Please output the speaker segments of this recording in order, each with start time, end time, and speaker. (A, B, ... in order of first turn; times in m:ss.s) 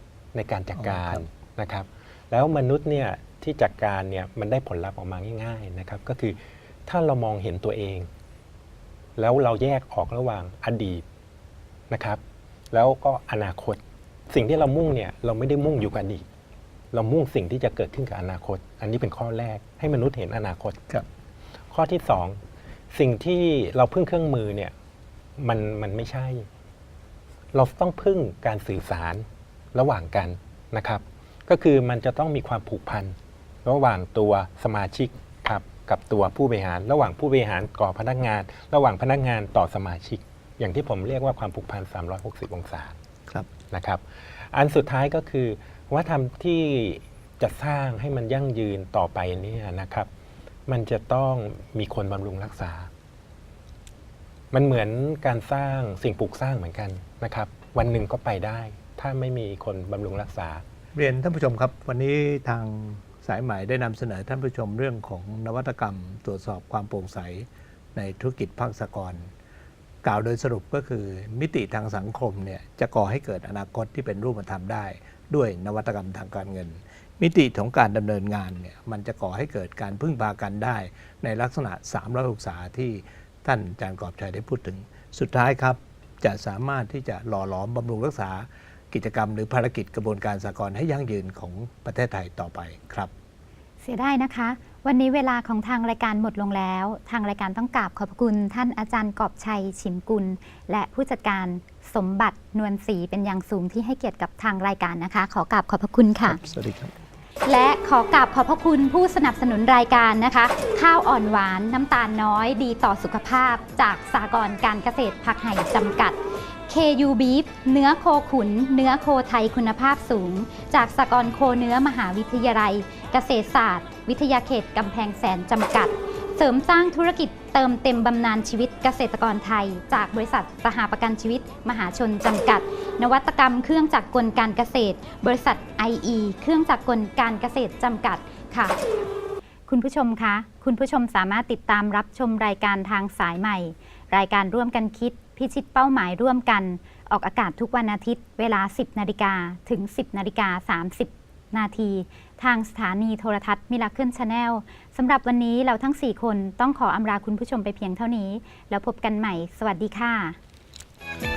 0:00.3-0:08.1 A
0:00.8-0:01.2 B
0:09.2-0:11.0 A
0:11.9-0:12.2 A
0:12.7-0:16.2 A
0:16.9-0:20.8 A
0:21.7-0:22.4 A
0:22.9-0:24.7 A
0:25.4-0:26.5 A
0:27.5-0:43.0 A
0:43.7-0:50.1 A
0:50.7-0:52.9 A
0:54.5-1:00.6 A
1:01.0-1:09.3 B
1:10.0-1:33.1 B
1:33.8-1:46.4 C
1:46.2-1:46.9 B
1:47.5-2:18.8 C
2:19.7-2:40.4 C